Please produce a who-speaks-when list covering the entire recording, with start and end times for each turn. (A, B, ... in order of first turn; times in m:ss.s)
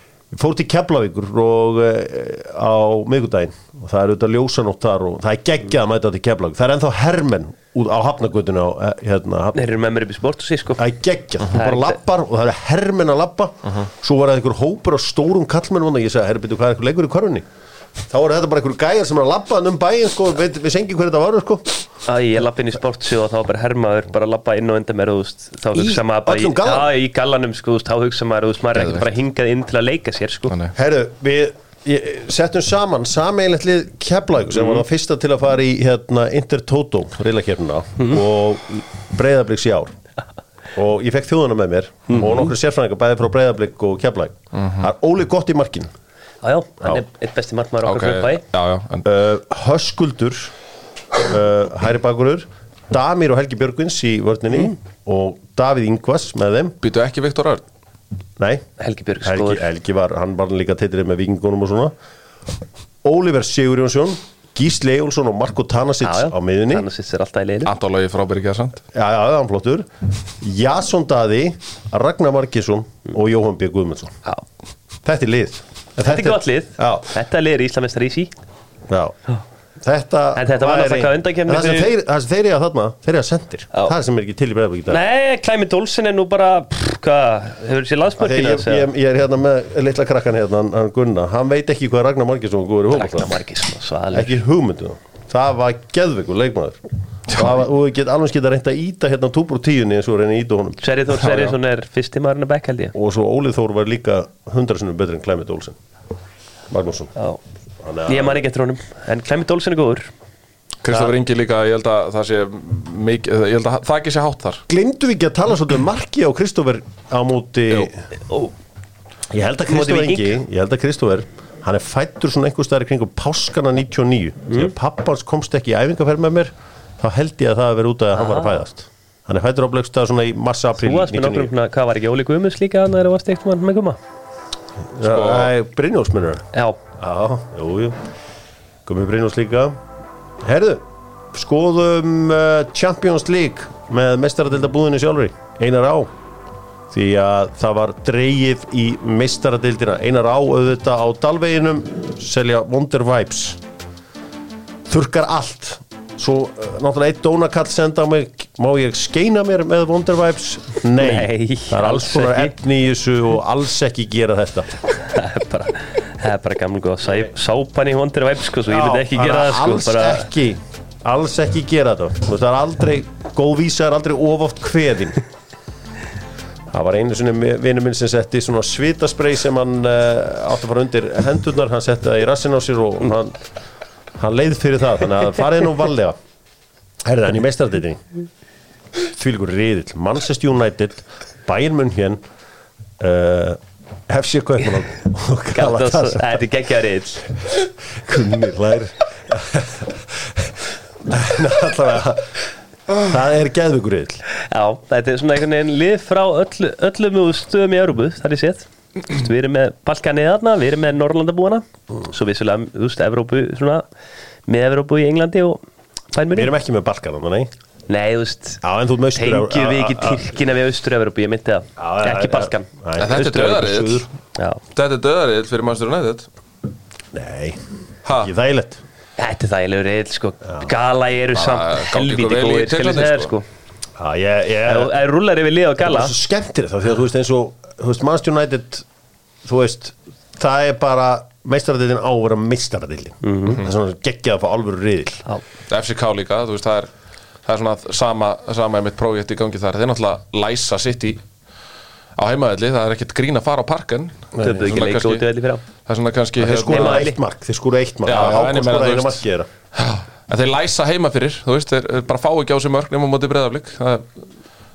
0:00.3-0:09.6 A
0:09.5-0:10.8 B
0:10.8-0:17.4 A
0:11.5-0:12.0 B
0:18.1-0:21.7 A
0:22.0-0:30.5 B
0:25.7-0:26.9 A
0:28.7-0:29.1 C
0:30.5-0:30.7 C
0:30.7-0:39.9 A
0:40.7-0:45.9 A
0:42.1-0:42.4 B
0:44.5-0:44.8 C
0:46.4-0:48.4 B
0:47.8-0:49.0 C
0:49.0-0:50.5 A
0:51.2-0:56.8 A
0:56.8-0:57.6 C
0:58.4-0:58.6 A
0:58.8-0:59.7 B
0:59.2-1:01.9 A
1:03.0-1:06.8 A
1:06.0-1:07.7 B
1:07.6-1:08.8 C
1:08.9-1:09.9 A
1:10.4-1:14.1 A
1:15.0-1:17.1 A
1:16.0-1:18.3 B
1:18.9-1:19.2 A
1:19.8-1:25.0 A
1:20.3-1:21.9 B
1:24.9-1:28.9 B
1:28.2-1:33.3 A
1:32.9-1:34.4 B
1:34.1-1:40.8 A
1:40.8-1:42.9 B
1:41.2-1:41.6 C
1:42.9-1:45.8 A
1:46.7-1:47.1 A
1:47.8-1:48.4 A
1:48.1-1:50.1 B
1:50.8-1:54.6 C
1:54.7-1:58.0 A
1:59.3-2:11.5 A
1:59.7-2:00.4 B
2:08.1-2:08.6 B
2:10.8-2:14.0 B
2:14.9-2:16.4 A
2:15.0-2:15.5 C
2:16.5-2:16.8 B
2:17.0-2:18.0 A
2:18.8-2:19.8 A
2:20.4-2:26.1 A
2:26.9-2:33.6 A
2:34.9-2:44.7 A
2:41.0-2:42.5 B
2:45.0-2:50.3 B
2:48.7-2:55.2 A
2:56.7-3:03.4 A
3:04.2-3:06.2 A
3:07.0-3:08.0 A
3:09.0-3:12.2 A
3:13.0-3:16.4 A
3:15.5-3:17.2 B
3:17.5-3:22.4 A
3:22.9-3:24.2 A
3:24.4-3:33.8 B
3:34.5-3:35.6 B
3:36.1-3:36.5 B
3:36.3-3:37.5 A
3:37.9-3:38.6 B
3:38.6-3:40.2 A
3:39.1-3:42.7 B
3:41.8-3:44.1 A
3:43.0-3:44.1 C
3:44.7-3:46.3 C
3:47.1-3:47.6 A
3:48.0-3:48.3 C
3:48.2-3:48.8 A
3:49.2-3:53.4 B
3:51.3-3:53.3 C
3:54.0-3:54.9 A
3:54.6-3:56.1 B
3:55.8-3:58.8 A
3:59.4-4:05.2 A
4:03.2-4:03.6 B
4:05.7-4:06.9 C
4:07.4-4:11.2 C
4:12.2-4:15.2 C
4:14.3-4:14.6 A
4:14.4-4:15.6 B
4:15.8-4:17.1 C
4:16.4-4:19.5 A
4:16.7-4:17.1 B
4:18.0-4:19.2 C
4:19.7-4:24.1 C